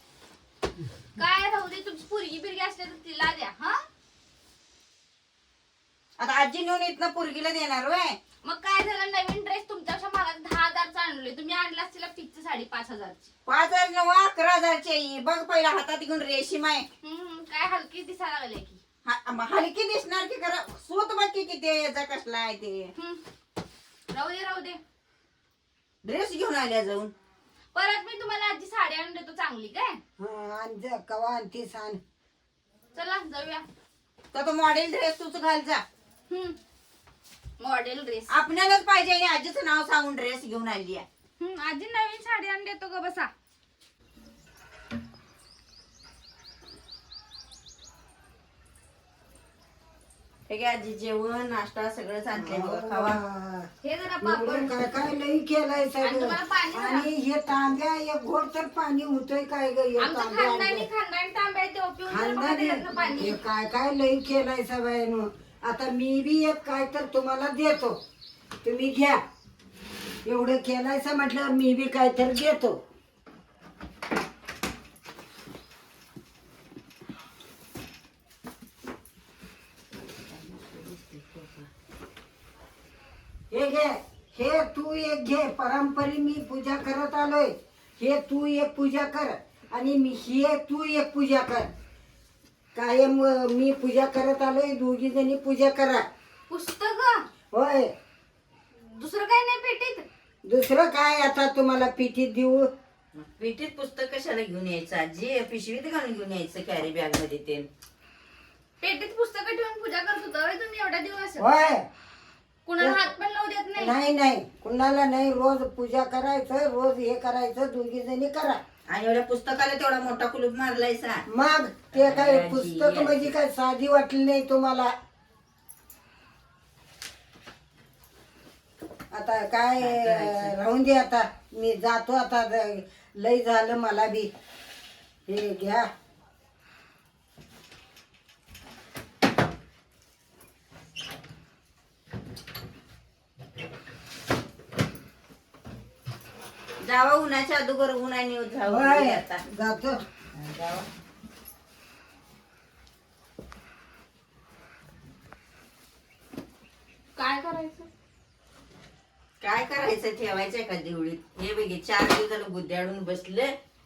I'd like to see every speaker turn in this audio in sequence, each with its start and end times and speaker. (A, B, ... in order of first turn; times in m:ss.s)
0:01.2-0:03.8 A
0:06.2-0:08.2 B
0:08.4-0:13.3 A
0:13.5-0:16.9 B
0:17.0-0:18.8 A
0:19.0-0:22.9 B
0:23.0-0:23.2 A
0:24.1-0:24.8 A
0:26.0-0:27.1 B
0:27.8-0:30.0 A
0:30.2-0:32.0 C
0:33.0-0:33.7 A
0:34.3-0:35.8 B
0:36.3-0:36.6 A
0:37.6-0:38.3 A
0:38.3-0:41.1 B
0:41.4-0:43.3 A
0:50.5-0:53.2 B
0:52.4-0:53.7 C
0:53.8-0:54.7 A
0:54.2-1:00.9 C
0:56.0-0:57.1 A
1:00.0-1:03.4 A
1:02.1-1:08.0 C
1:08.6-1:09.2 C
1:10.2-1:12.8 C
1:20.3-1:21.7 B
1:23.5-1:31.7 C
1:32.8-1:36.1 C
1:36.5-1:37.3 A
1:37.5-1:37.9 C
1:38.8-1:40.1 A
1:40.4-1:42.7 C
1:43.2-1:47.7 B
1:48.8-1:51.5 A
1:51.4-1:51.8 C
1:52.7-1:53.9 A
1:53.8-1:58.6 C
1:58.9-2:01.2 B
2:01.3-2:04.9 C
2:01.9-2:03.3 B
2:09.1-2:14.3 C
2:09.8-2:10.5 B
2:15.3-2:15.9 C
2:26.8-2:29.4 B
2:28.7-2:30.0 C
2:30.3-2:30.9 B
2:37.2-2:37.9 A
2:39.4-2:43.5 B